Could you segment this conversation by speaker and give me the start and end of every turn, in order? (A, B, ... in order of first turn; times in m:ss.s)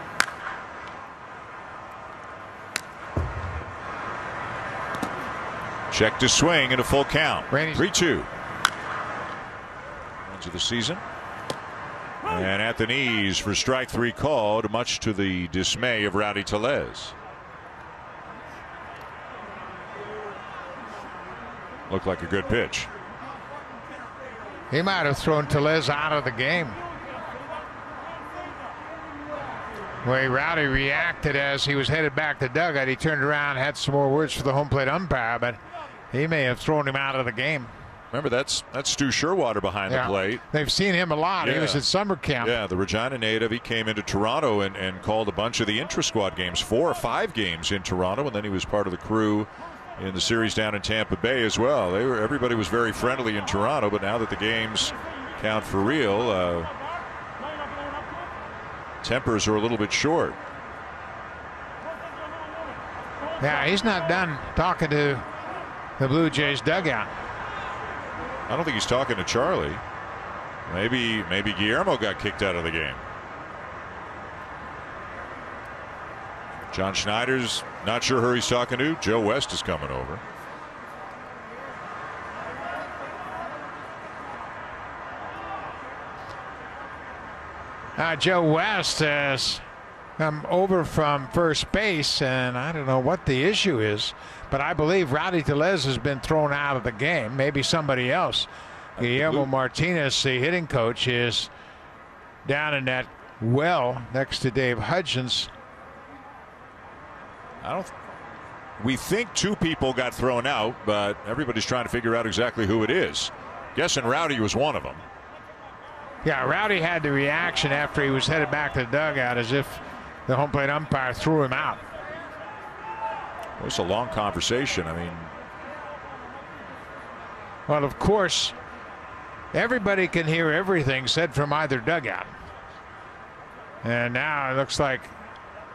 0:05.9-0:08.3 A
0:07.5-0:07.9 B
0:10.2-0:11.0 A
0:12.2-0:17.2 A
0:21.9-0:22.9 A
0:24.7-0:26.8 B
0:30.0-0:35.6 B
0:36.1-0:37.7 B
0:38.1-0:40.4 A
0:39.9-0:42.6 B
0:41.4-0:41.8 A
0:42.4-0:56.7 A
0:59.0-1:00.4 A
1:03.4-1:05.2 B
1:06.0-1:07.1 B
1:08.5-1:09.8 A
1:10.7-1:13.0 A
1:16.7-1:20.2 A
1:28.0-1:29.6 B
1:30.2-1:41.5 B
1:39.0-1:39.5 A
1:42.4-1:45.5 B
1:47.6-1:47.9 A
1:48.8-1:55.0 A
1:56.2-2:01.8 B
2:03.6-2:05.3 A
2:07.7-2:08.6 B
2:09.5-2:12.3 B
2:13.8-2:15.1 B